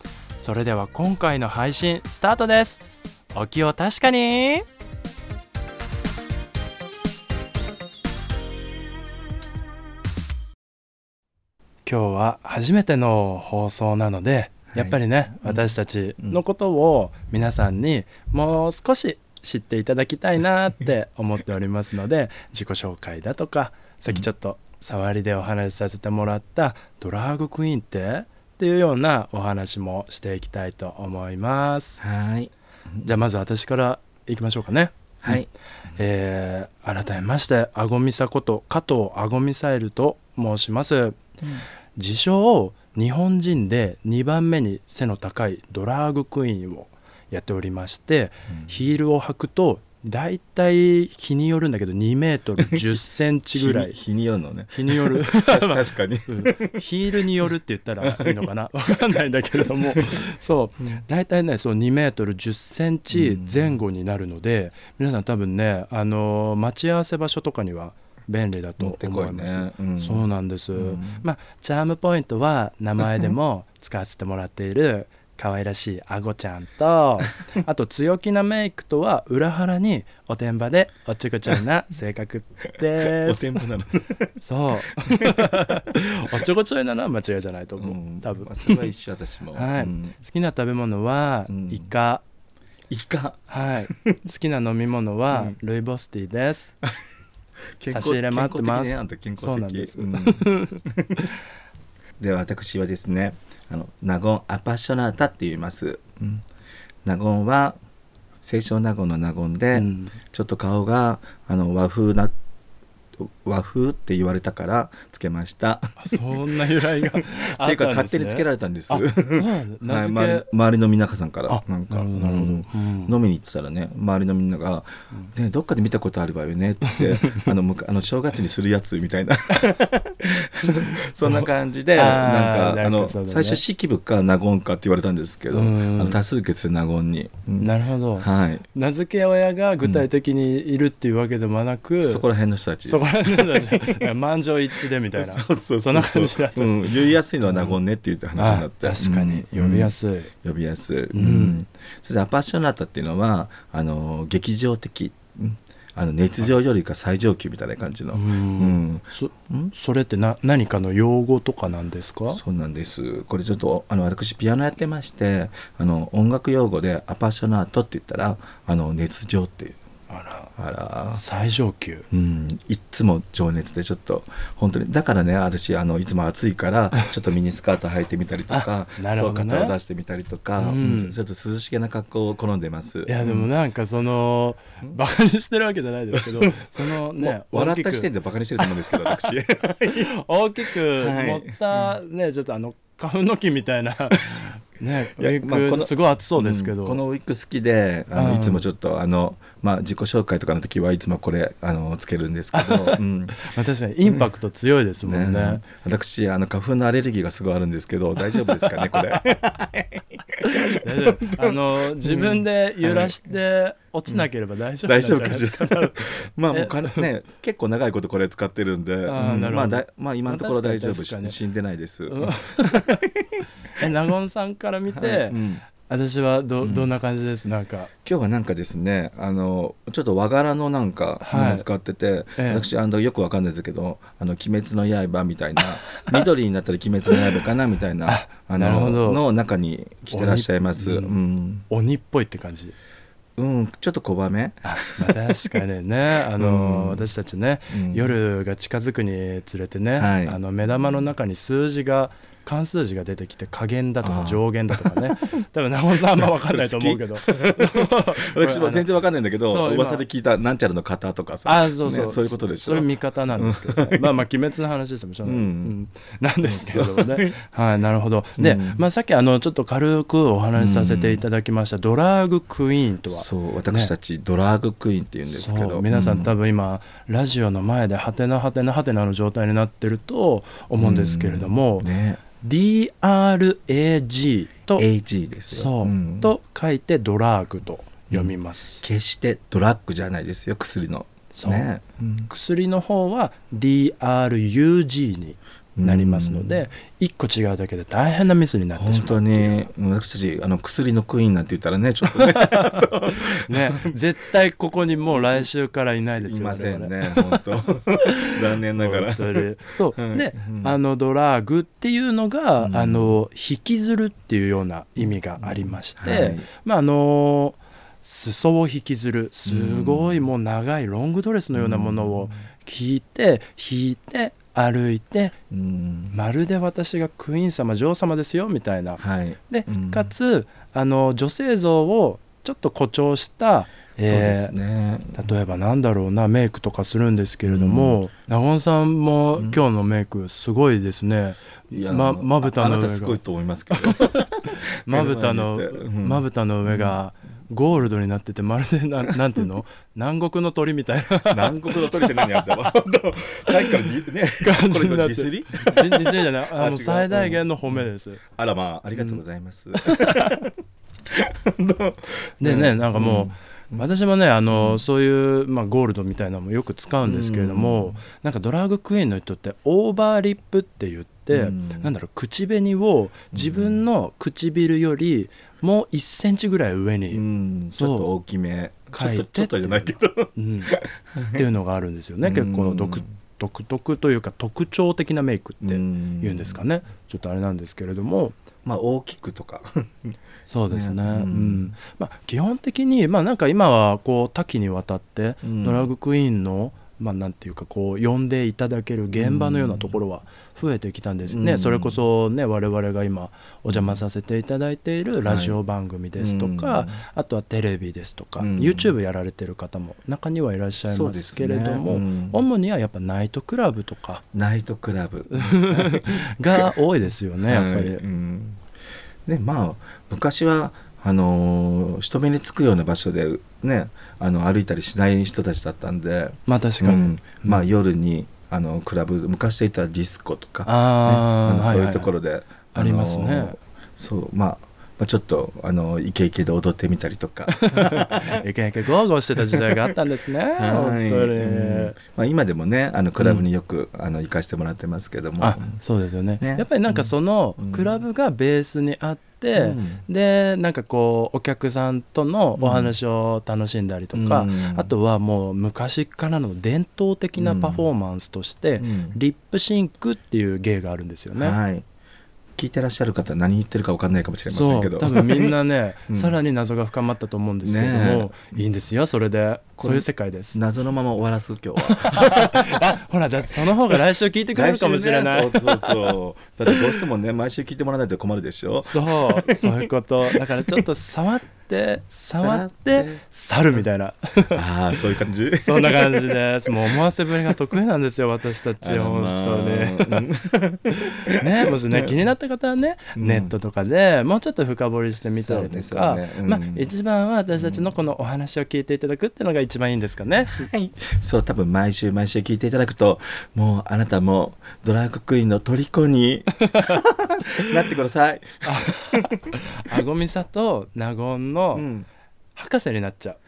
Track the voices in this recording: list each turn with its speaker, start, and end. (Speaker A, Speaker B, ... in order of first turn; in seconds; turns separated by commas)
Speaker A: 0.4-4.7, Speaker A: 11.8-32.0, Speaker B: 14.7-16.4, Speaker B: 32.0-33.1, Speaker A: 33.0-41.2, Speaker B: 35.2-35.5, Speaker A: 42.0-54.0, Speaker B: 53.5-57.2, Speaker A: 54.7-83.6, Speaker B: 58.0-58.4, Speaker B: 63.1-63.8, Speaker B: 68.8-71.2, Speaker B: 83.0-84.3, Speaker A: 84.4-88.9, Speaker B: 85.0-85.7, Speaker B: 87.8-90.2, Speaker A: 89.5-92.2, Speaker B: 91.5-91.9, Speaker B: 92.9-94.0, Speaker A: 93.5-96.8, Speaker B: 95.3-95.6, Speaker B: 97.8-101.3, Speaker A: 97.9-100.8, Speaker B: 102.2-106.4, Speaker B: 107.0-107.8, Speaker B: 108.4-112.3, Speaker A: 109.7-110.2, Speaker B: 113.2-116.2, Speaker A: 116.0-120.5, Speaker B: 116.9-138.7, Speaker A: 121.5-123.2, Speaker A: 126.9-127.5, Speaker A: 130.7-133.6, Speaker A: 135.5-136.2, Speaker A: 137.6-142.2, Speaker B: 142.0-144.0, Speaker A: 142.8-147.8, Speaker B: 145.0-159.7, Speaker A: 148.4-150.3, Speaker A: 151.1-151.6, Speaker A: 158.1-162.4, Speaker B: 162.3-169.8, Speaker A: 170.1-170.5, Speaker B: 170.6-171.2, Speaker A: 171.1-172.1, Speaker B: 172.1-183.5, Speaker A: 178.5-179.8, Speaker A: 180.6-181.2, Speaker A: 183.1-189.3, Speaker B: 187.2-190.1, Speaker A: 190.1-197.0, Speaker B: 190.9-192.0, Speaker B: 195.1-203.5, Speaker A: 198.1-198.7, Speaker A: 202.6-205.6, Speaker B: 205.1-213.2, Speaker A: 210.7-217.1, Speaker B: 214.8-223.9, Speaker A: 219.1-221.4, Speaker A: 222.1-223.0, Speaker A: 223.8-227.9, Speaker B: 224.9-225.6, Speaker B: 226.6-226.9, Speaker B: 228.1-241.7, Speaker A: 231.2-231.7, Speaker A: 232.4-232.7, Speaker A: 238.1-239.2, Speaker A: 240.1-242.8, Speaker B: 243.4-245.1, Speaker A: 244.6-258.9, Speaker B: 246.4-247.1, Speaker B: 247.7-248.2, Speaker B: 250.0-250.4, Speaker B: 254.0-255.3, Speaker B: 256.1-264.1, Speaker A: 259.5-260.1, Speaker A: 261.4-273.9, Speaker B: 265.2-265.8, Speaker B: 266.4-267.4, Speaker B: 268.4-268.8, Speaker B: 270.6-271.2, Speaker B: 273.1-276.3, Speaker A: 275.3-281.9, Speaker B: 280.8-282.2, Speaker A: 282.4-284.9, Speaker B: 284.8-286.3, Speaker A: 285.5-288.8, Speaker B: 288.1-292.3, Speaker A: 291.3-291.7, Speaker A: 292.3-299.6, Speaker B: 295.8-296.6, Speaker B: 298.8-303.9, Speaker A: 302.1-302.9, Speaker A: 303.4-307.2, Speaker B: 306.2-309.4, Speaker A: 308.1-325.4, Speaker B: 310.0-310.8, Speaker B: 312.6-313.2, Speaker B: 315.4-316.5, Speaker B: 319.4-320.3, Speaker B: 321.5-322.4, Speaker B: 325.5-326.2, Speaker A: 326.1-334.5, Speaker B: 329.0-330.1, Speaker B: 334.0-335.3, Speaker A: 335.1-343.2, Speaker B: 337.4-338.0, Speaker B: 341.7-347.0, Speaker A: 343.7-344.1, Speaker A: 344.9-352.7, Speaker B: 351.3-357.9, Speaker A: 354.4-358.2, Speaker B: 358.4-360.5, Speaker A: 359.0-359.2, Speaker A: 359.8-360.2, Speaker B: 361.1-363.8, Speaker A: 362.4-377.2, Speaker B: 364.5-364.9, Speaker B: 367.0-368.0, Speaker B: 371.3-371.9, Speaker B: 373.3-373.8, Speaker B: 377.1-381.4, Speaker A: 377.8-378.1, Speaker A: 378.9-380.8, Speaker A: 381.3-388.4, Speaker B: 382.2-383.1, Speaker B: 385.6-386.6, Speaker B: 388.6-390.1, Speaker A: 390.5-414.2, Speaker B: 390.7-391.7, Speaker B: 395.4-395.9, Speaker B: 399.2-400.0, Speaker B: 401.3-402.0, Speaker B: 403.7-404.0, Speaker B: 405.2-405.6, Speaker B: 406.2-407.0, Speaker B: 408.4-408.9, Speaker B: 410.8-412.4, Speaker B: 414.3-416.3, Speaker A: 415.3-418.0, Speaker B: 417.5-418.6, Speaker B: 419.3-438.4, Speaker A: 426.5-427.6, Speaker A: 430.6-432.1, Speaker A: 432.7-433.6, Speaker A: 437.5-442.0, Speaker B: 440.6-445.8, Speaker A: 443.2-443.4, Speaker A: 445.4-461.6, Speaker B: 446.4-447.9, Speaker B: 449.6-450.1, Speaker B: 452.6-453.0, Speaker B: 454.1-454.9, Speaker B: 457.4-457.9, Speaker B: 458.8-459.2, Speaker B: 461.4-461.9, Speaker B: 462.6-465.5, Speaker A: 464.5-470.6, Speaker B: 466.1-466.4, Speaker B: 467.6-468.6, Speaker B: 469.8-472.9, Speaker A: 471.9-476.1, Speaker B: 474.5-479.9, Speaker A: 478.8-484.6, Speaker B: 482.3-483.2, Speaker B: 484.5-487.6, Speaker A: 485.6-490.3, Speaker B: 488.8-492.2, Speaker A: 491.4-500.7, Speaker B: 493.2-493.5, Speaker B: 495.2-496.9, Speaker B: 497.5-497.9, Speaker B: 500.5-509.4, Speaker A: 506.6-507.0, Speaker A: 508.6-511.9, Speaker B: 511.7-512.1, Speaker A: 512.6-513.4